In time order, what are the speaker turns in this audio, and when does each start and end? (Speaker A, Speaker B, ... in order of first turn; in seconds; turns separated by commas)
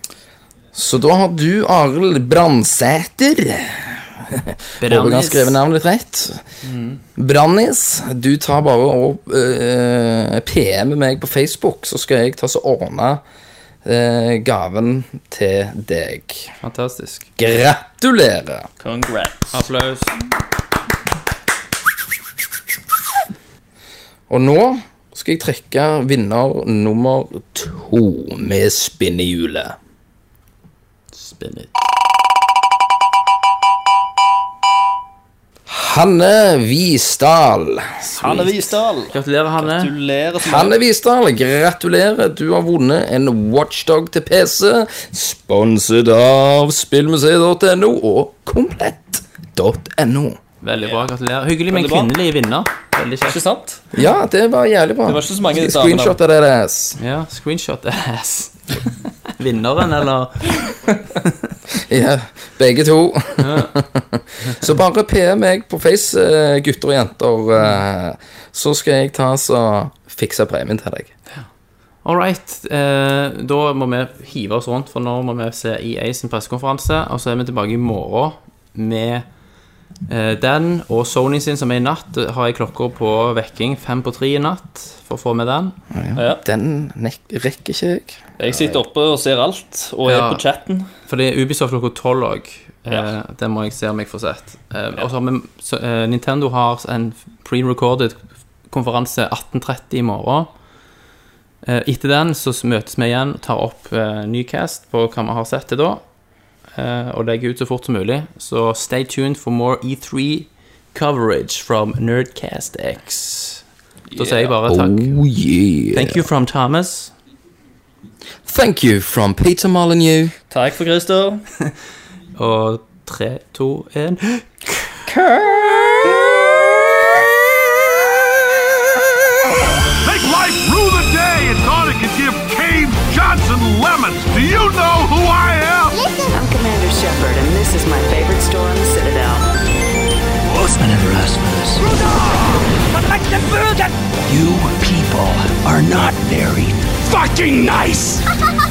Speaker A: 0.7-6.4, Speaker B: 4.8-5.6, Speaker B: 6.6-7.0, Speaker A: 7.2-13.2, Speaker A: 13.8-16.6, Speaker B: 16.6-17.3, Speaker A: 17.4-18.7, Speaker C: 18.8-19.6, Speaker B: 19.5-20.2, Speaker A: 24.3-29.8, Speaker B: 31.1-31.8, Speaker A: 35.7-38.5, Speaker C: 38.2-40.8, Speaker B: 38.2-38.5, Speaker B: 39.1-39.9, Speaker A: 40.4-50.4, Speaker B: 50.6-53.4, Speaker C: 51.7-52.1, Speaker C: 53.2-53.8, Speaker A: 53.9-57.0, Speaker C: 55.1-56.2, Speaker B: 57.0-61.3, Speaker A: 61.7-71.1, Speaker B: 63.4-63.8, Speaker B: 72.0-79.3, Speaker B: 80.1-85.8, Speaker A: 85.9-88.8, Speaker C: 86.2-86.4, Speaker C: 88.4-90.9, Speaker B: 90.0-90.4, Speaker B: 91.1-100.5, Speaker C: 92.9-93.1, Speaker B: 101.7-106.0, Speaker B: 106.7-113.6, Speaker C: 114.1-114.6, Speaker B: 114.2-115.2, Speaker A: 114.7-116.2, Speaker B: 115.9-117.1, Speaker A: 118.5-120.3, Speaker C: 120.5-121.5, Speaker B: 122.4-124.9, Speaker A: 125.1-127.2, Speaker D: 129.9-136.0, Speaker E: 136.2-139.5, Speaker F: 140.8-141.9, Speaker D: 142.0-143.3, Speaker F: 144.3-148.2